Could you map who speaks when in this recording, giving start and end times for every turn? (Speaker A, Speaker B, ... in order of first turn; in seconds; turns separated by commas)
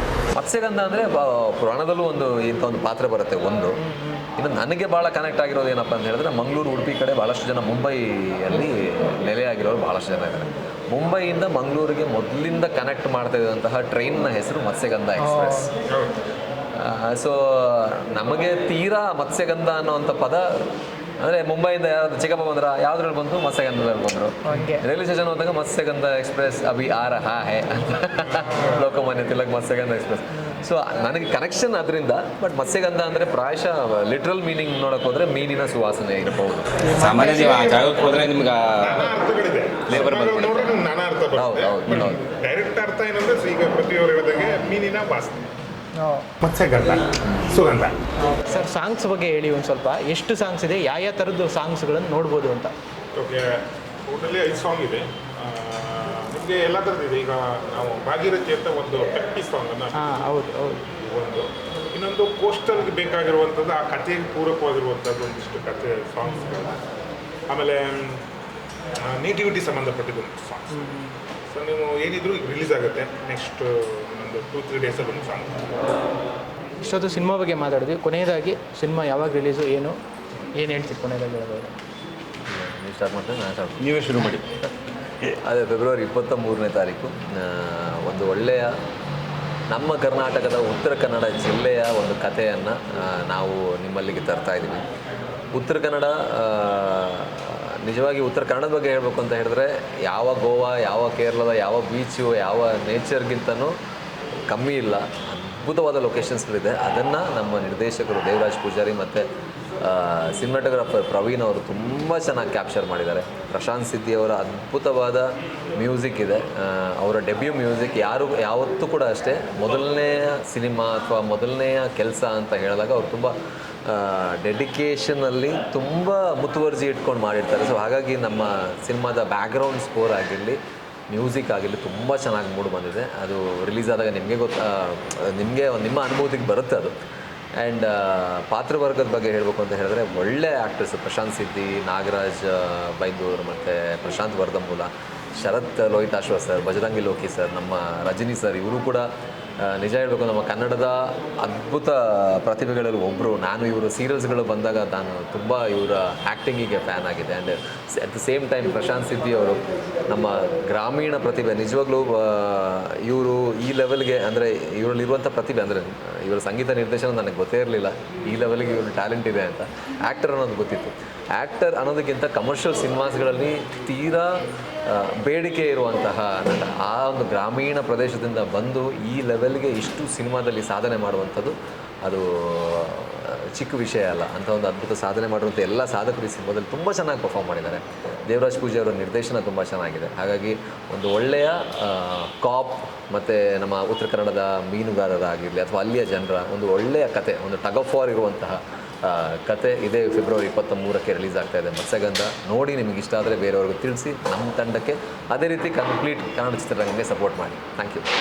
Speaker A: 0.3-3.8, Speaker B: 3.8-4.3, Speaker A: 4.4-15.7, Speaker B: 15.2-15.7, Speaker C: 15.9-16.2, Speaker A: 16.8-36.7, Speaker B: 24.4-24.8, Speaker C: 28.3-28.8, Speaker B: 36.8-37.9, Speaker D: 37.0-39.1, Speaker C: 37.2-38.2, Speaker C: 38.8-45.5, Speaker D: 39.9-40.7, Speaker A: 41.4-42.2, Speaker B: 46.0-46.3, Speaker C: 46.4-48.0, Speaker B: 48.2-52.7, Speaker C: 53.1-60.2, Speaker B: 59.9-60.8, Speaker C: 60.9-66.8, Speaker C: 67.5-68.2, Speaker C: 69.0-71.0, Speaker B: 70.7-71.1, Speaker C: 71.5-75.7, Speaker B: 76.8-80.0, Speaker B: 80.5-81.7, Speaker A: 82.5-83.9, Speaker D: 83.8-84.5, Speaker A: 85.4-88.7, Speaker A: 89.7-94.8, Speaker A: 95.5-103.8, Speaker A: 104.5-109.3, Speaker A: 109.8-123.3, Speaker A: 123.9-130.6, Speaker A: 131.1-136.9, Speaker A: 137.6-149.1, Speaker A: 149.6-208.1